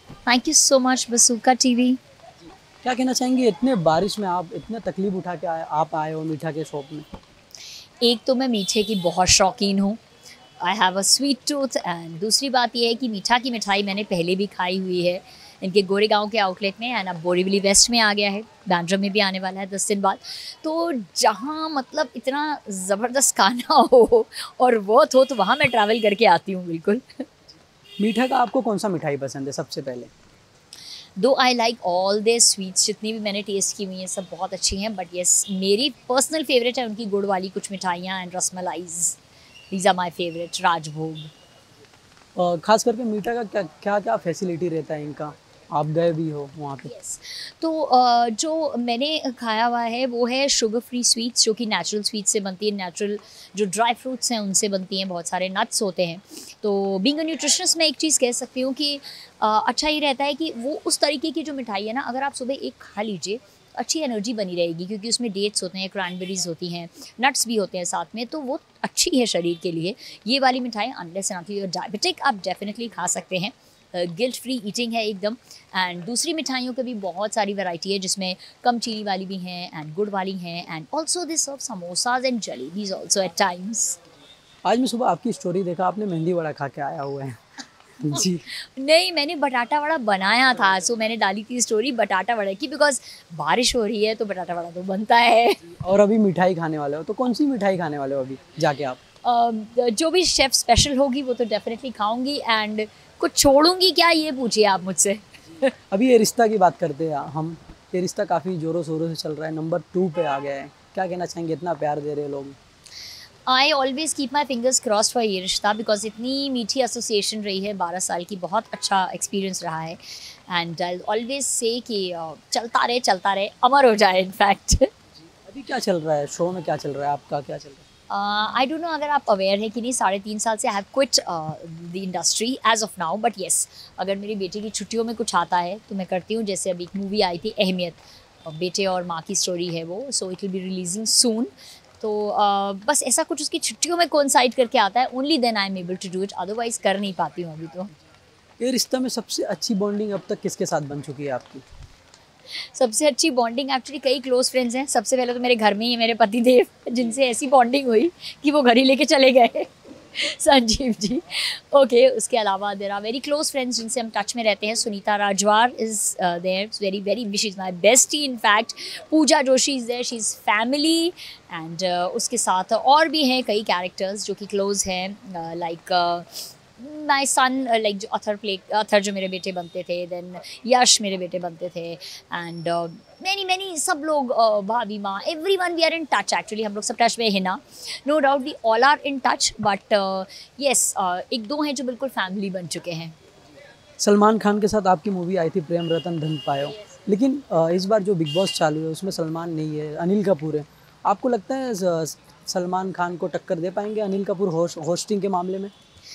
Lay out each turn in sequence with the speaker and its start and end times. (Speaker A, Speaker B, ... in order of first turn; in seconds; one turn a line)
Speaker A: 0.2-2.0
Speaker B: 2.8-7.0
Speaker A: 8.0-10.0
Speaker A: 10.6-27.2
Speaker B: 28.0-30.1
Speaker A: 31.2-39.2
Speaker A: 39.7-41.3
Speaker B: 42.4-46.9
Speaker A: 46.9-84.0
Speaker B: 84.6-87.4
Speaker B: 88.0-88.5
Speaker A: 88.5-95.6
Speaker B: 95.7-99.0
Speaker A: 99.2-105.7
Speaker B: 105.9-112.6
Speaker A: 113.5-124.9
Speaker B: 125.4-127.8
Speaker A: 128.1-147.9
Speaker B: 148.6-151.6
Speaker A: 152.7-193.1
Speaker B: 194.0-205.7